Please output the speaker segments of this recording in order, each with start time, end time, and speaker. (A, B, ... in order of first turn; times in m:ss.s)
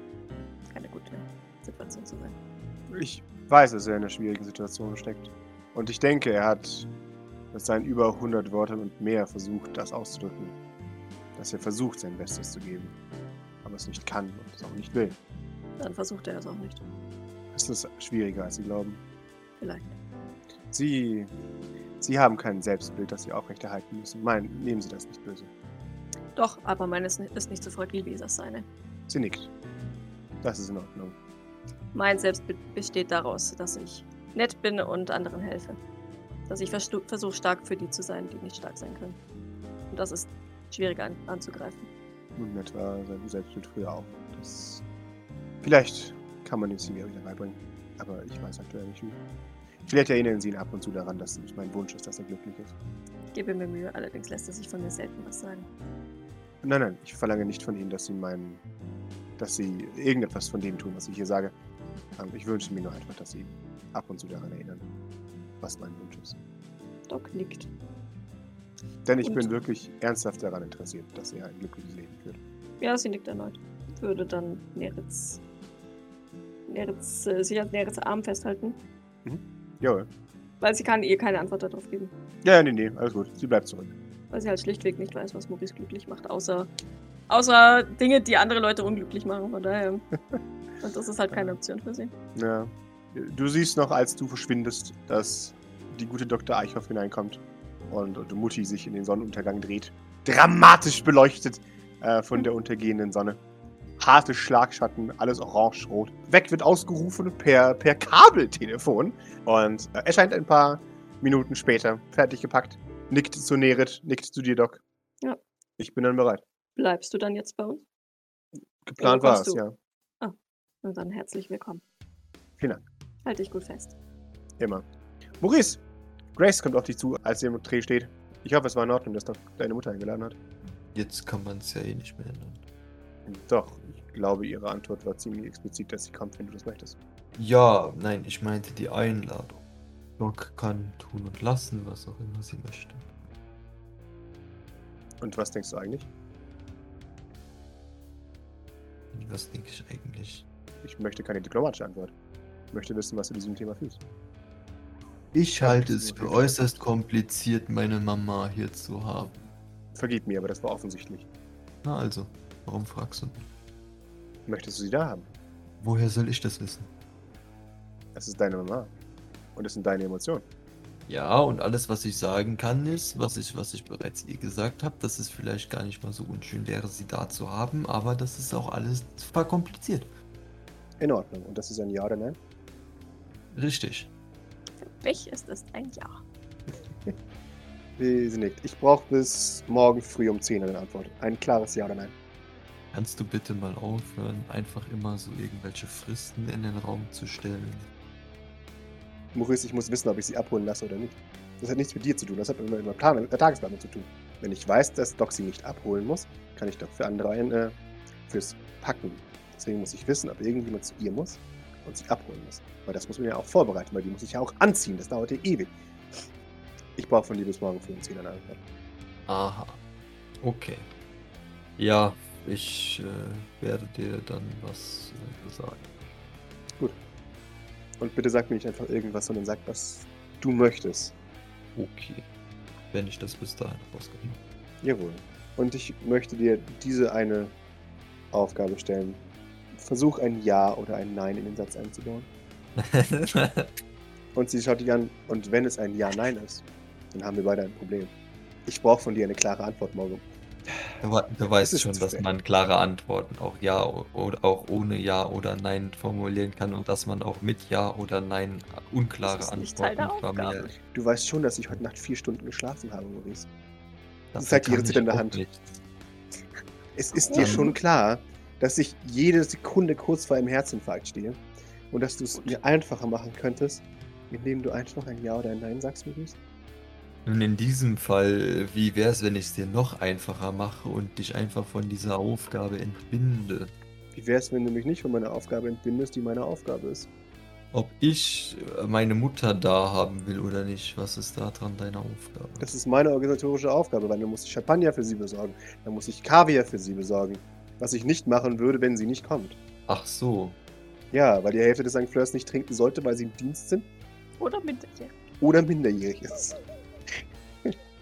0:00.7-0:02.3 A
0:02.9-0:06.9 B
0:07.5-0:10.6 B
0:11.4-0:12.9 B
0:13.6-0:15.2 B
0:15.8-0:16.8 A
0:17.5-0:19.0 B
0:19.6-0:19.9 A
0:20.7-0:21.3 B
0:22.0-0:25.5 B
0:26.4-0:28.6 A
0:29.1-0:29.5 B
0:30.4-0:31.2 B
0:31.9-0:35.8 A
0:36.5-0:39.2 A
0:39.9-0:41.9 A
0:42.4-0:44.8 B
0:45.6-0:49.2 B
0:49.8-0:52.7 B
0:53.3-0:55.7 A
0:56.6-0:58.6 B
0:59.4-1:01.5 B
1:02.2-1:04.8 B
1:05.6-1:06.4 B
1:07.1-1:07.7 A
1:09.0-1:12.4 B
1:09.2-1:09.5 A
1:12.8-1:15.4 A
1:16.7-1:18.8 A
1:19.2-1:20.1 B
1:20.6-1:22.1 A
1:22.4-1:23.9 B
1:24.3-1:26.7 A
1:27.3-1:30.0 A
1:30.8-1:32.1 A
1:32.3-1:43.4 B
1:44.0-1:54.8 B
1:55.8-1:56.4 B
1:56.8-1:57.8 A
1:58.8-1:59.7 B
1:59.0-1:59.6 A
2:00.2-2:01.8 A
2:03.2-2:03.9 A
2:04.6-2:04.8 B
2:05.4-2:05.8 B
2:06.4-2:10.4 B
2:10.9-2:12.6 C
2:13.3-2:17.0 B
2:17.4-2:19.6 C
2:20.2-2:23.1 C
2:25.2-2:26.1 B
2:29.1-2:30.4 C
2:30.8-2:32.1 B
2:32.7-2:34.0 B
2:35.3-2:39.4 C
2:35.6-2:36.8 B
2:39.9-2:41.3 B
2:41.8-2:43.5 C
2:44.5-2:45.3 B
2:45.8-2:46.9 C
2:48.1-2:48.9 B
2:49.5-2:50.4 B
2:51.1-3:00.1 C
3:01.0-3:02.4 B
3:03.5-3:04.1 C
3:04.8-3:06.2 A
3:08.0-3:12.1 B
3:12.9-3:17.9 C
3:19.3-3:27.8 B
3:28.3-3:35.7 B
3:37.0-3:38.6 B
3:39.3-3:39.8 C
3:40.4-3:40.9 C
3:41.8-3:46.0 C
3:48.0-3:51.1 B
3:51.8-3:52.2 C
3:52.8-3:54.4 C
3:54.8-3:57.5 B
3:58.3-3:59.2 B
3:59.8-4:02.3 B
4:02.8-4:03.7 C
4:04.3-4:08.1 B
4:08.6-4:10.2 B
4:11.0-4:20.7 C
4:11.6-4:12.2 B
4:19.2-4:20.7 A
4:20.9-4:23.5 B
4:24.3-4:25.8 C
4:24.4-4:25.4 B
4:26.9-4:36.4 B
4:27.2-4:27.7 A
4:27.3-4:27.7 C
4:37.2-4:43.7 C
4:44.1-4:47.1 B
4:47.7-4:52.7 C
4:52.6-4:59.6 B
4:59.9-5:00.6 C
5:01.1-5:03.9 B
5:04.4-5:05.1 A
5:05.4-5:06.6 B